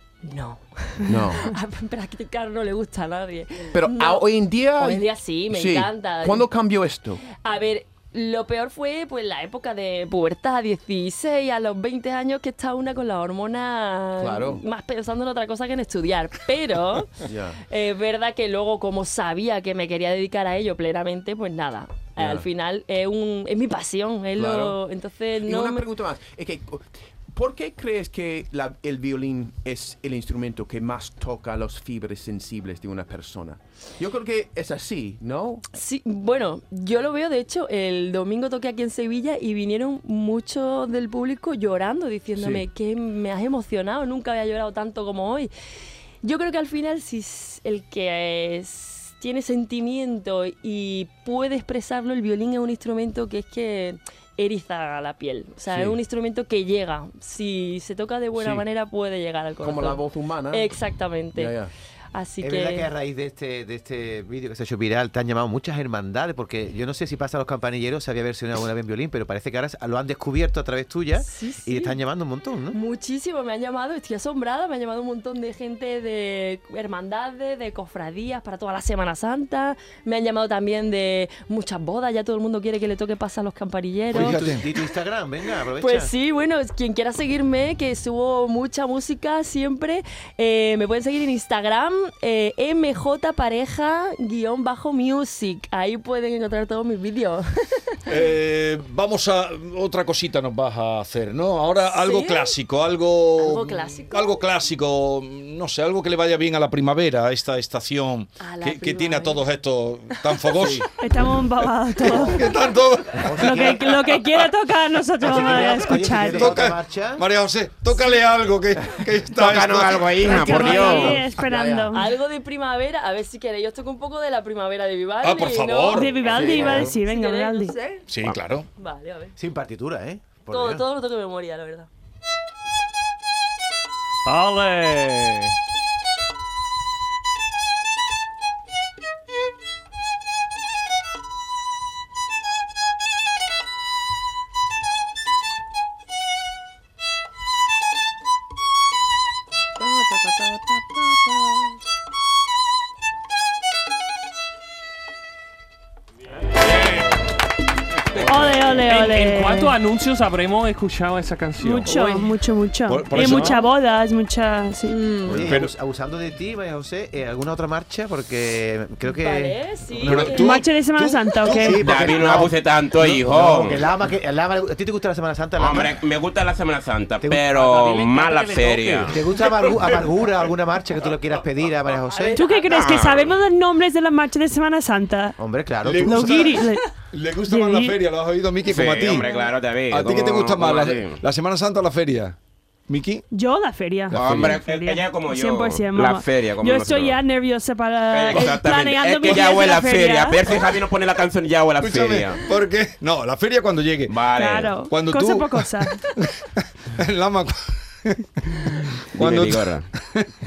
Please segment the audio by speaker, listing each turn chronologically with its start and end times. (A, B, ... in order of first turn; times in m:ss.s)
0:00.2-0:04.2 A
0:01.1-0:01.5 B
0:03.7-0:07.2 B
0:04.8-0:06.5 A
0:07.4-0:25.8 A
0:14.2-0:14.6 B
0:17.2-0:17.6 B
0:22.2-0:22.5 B
0:24.4-0:24.8 B
0:25.4-0:35.6 B
0:35.7-0:45.5 A
0:42.4-0:42.6 B
0:46.2-1:01.6 A
0:55.7-0:56.0 B
0:58.4-0:58.6 B
0:59.6-1:00.7 B
1:01.4-1:01.7 B
1:02.1-1:02.9 A
1:02.4-1:12.8 C
1:11.2-1:12.0 A
1:12.7-1:24.5 A
1:24.1-1:26.1 C
1:24.1-1:24.7 D
1:25.8-1:37.8 A
1:38.1-1:50.9 D
1:41.9-1:42.6 A
1:43.4-1:44.4 A
1:48.4-1:49.5 A
1:50.2-1:50.4 A
1:51.0-1:52.4 E
1:52.0-1:54.5 D
1:53.2-1:53.9 C
1:53.4-1:56.6 E
1:55.2-1:57.3 C
1:56.3-2:00.3 D
1:59.4-2:01.2 F
2:00.2-2:01.9 B
2:00.3-2:02.1 E
2:01.9-2:06.1 A
2:05.2-2:06.7 D
2:05.9-2:07.8 E
2:06.3-2:07.0 B
2:07.0-2:08.0 A
2:08.1-2:08.7 D
2:08.8-2:09.3 A
2:09.4-2:10.8 C
2:10.5-2:11.9 A
2:14.3-2:15.6 G
2:38.2-2:39.8 E
2:38.6-2:42.2 G
2:41.6-2:45.0 E
2:42.9-2:43.6 D
2:43.2-2:43.7 G
2:44.9-2:45.5 A
2:45.2-2:50.3 C
2:45.4-2:45.7 D
2:49.0-2:50.5 A
2:50.0-2:51.9 D
2:50.2-2:51.8 E
2:51.5-2:56.0 C
2:51.8-2:53.8 F
2:55.6-2:59.2 F
2:57.2-2:57.6 C
2:57.6-2:59.2 G
2:59.1-3:02.4 C
3:02.0-3:02.6 A
3:02.4-3:05.4 E
3:02.6-3:03.4 F
3:05.4-3:06.6 C
3:05.8-3:09.4 D
3:06.0-3:06.8 E
3:07.5-3:08.0 E
3:08.7-3:11.2 F
3:09.9-3:12.4 D
3:12.9-3:13.2 D
3:13.3-3:20.6 E
3:14.1-3:14.6 D
3:14.1-3:17.2 F
3:18.1-3:22.4 F
3:21.8-3:24.1 D
3:24.1-3:24.7 F
3:24.3-3:26.0 E
3:24.9-3:30.3 D
3:29.2-3:29.9 F